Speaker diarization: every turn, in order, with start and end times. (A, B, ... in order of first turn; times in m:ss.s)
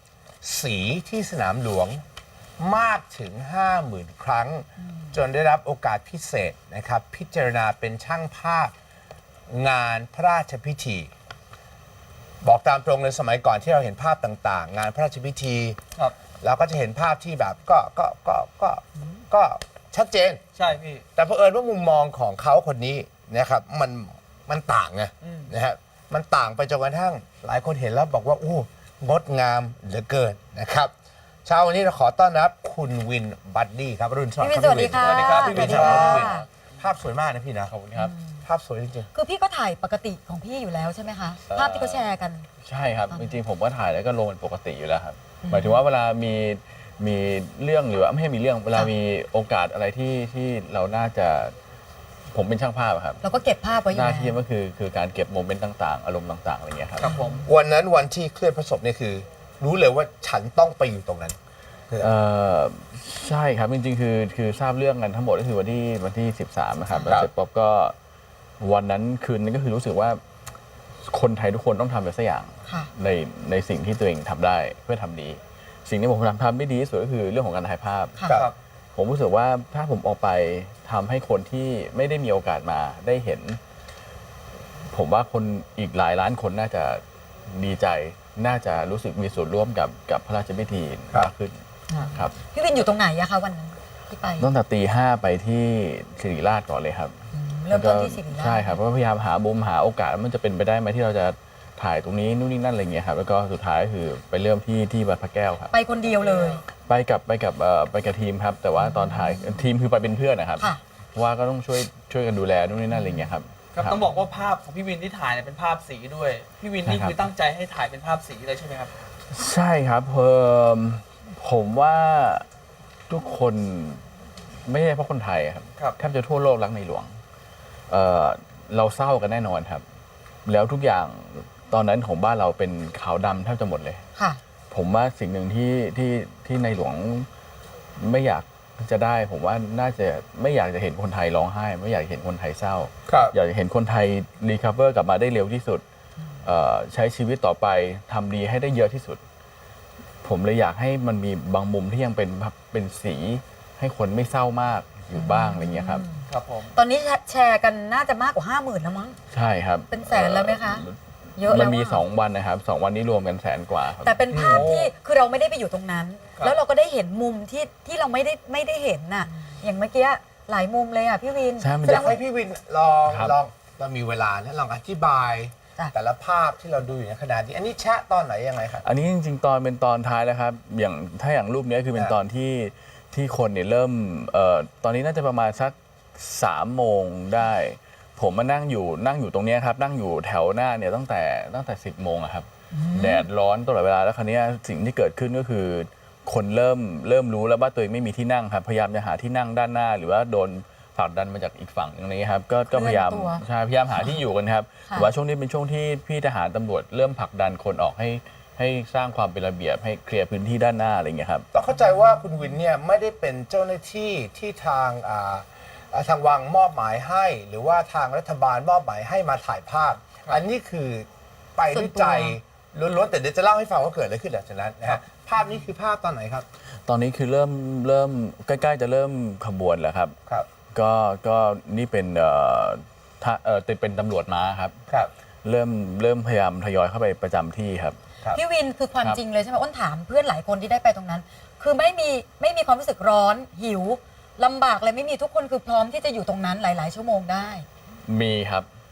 0:00.4-0:02.0 A
0:02.6-0:08.7 A
0:04.8-0:05.2 B
0:09.5-0:11.1 A
0:12.4-0:15.8 A
0:16.4-0:20.4 A
0:20.6-0:21.0 C
0:21.2-0:30.9 A
0:25.2-0:25.5 C
0:31.4-0:37.7 A
0:34.4-0:36.5 B
0:35.0-0:36.4 C
0:37.7-0:38.1 D
0:38.0-0:38.4 B
0:38.4-0:39.1 A
0:39.1-0:42.5 B
0:41.5-0:42.1 D
0:42.6-0:51.5 D
0:45.4-0:45.8 B
0:52.3-0:53.2 D
0:53.2-0:54.4 B
0:53.9-0:57.1 D
0:57.0-0:57.5 C
0:57.0-0:57.4 B
0:57.4-1:01.4 A
1:02.0-1:08.0 D
1:06.8-1:07.1 B
1:07.0-1:07.3 A
1:08.6-1:10.2 D
1:11.1-1:18.2 D
1:19.0-1:23.6 D
1:24.9-1:31.6 D
1:31.9-1:34.5 B
1:34.4-1:37.2 D
1:37.3-1:38.8 B
1:37.7-1:45.7 D
1:45.7-1:46.6 B
1:46.1-1:46.6 C
1:46.9-1:54.1 D
1:48.8-1:49.4 B
1:52.9-1:53.3 B
1:53.7-1:59.0 C
1:56.8-1:57.2 D
1:59.3-2:02.5 D
2:03.1-2:04.0 D
2:04.7-2:07.1 D
2:07.9-2:09.8 D
2:10.5-2:14.0 D
2:14.7-2:17.3 D
2:18.0-2:25.8 D
2:23.1-2:23.3 A
2:26.4-2:29.2 D
2:30.2-2:36.1 D
2:35.2-2:39.2 B
2:36.3-2:36.8 C
2:39.3-2:44.2 D
2:39.9-2:40.8 B
2:41.4-2:42.0 B
2:44.0-2:52.2 B
2:44.3-2:44.9 C
2:44.3-2:44.6 A
2:51.6-2:52.2 D
2:51.8-2:58.8 A
2:53.1-2:53.4 D
2:58.8-3:31.5 D
3:12.7-3:13.2 B
3:22.7-3:23.4 B
3:31.5-3:46.5 A
3:41.7-3:42.4 B
3:46.9-3:50.2 D
3:50.7-3:54.8 D
3:55.4-3:58.0 D
3:58.3-4:07.7 B
4:08.0-4:08.7 D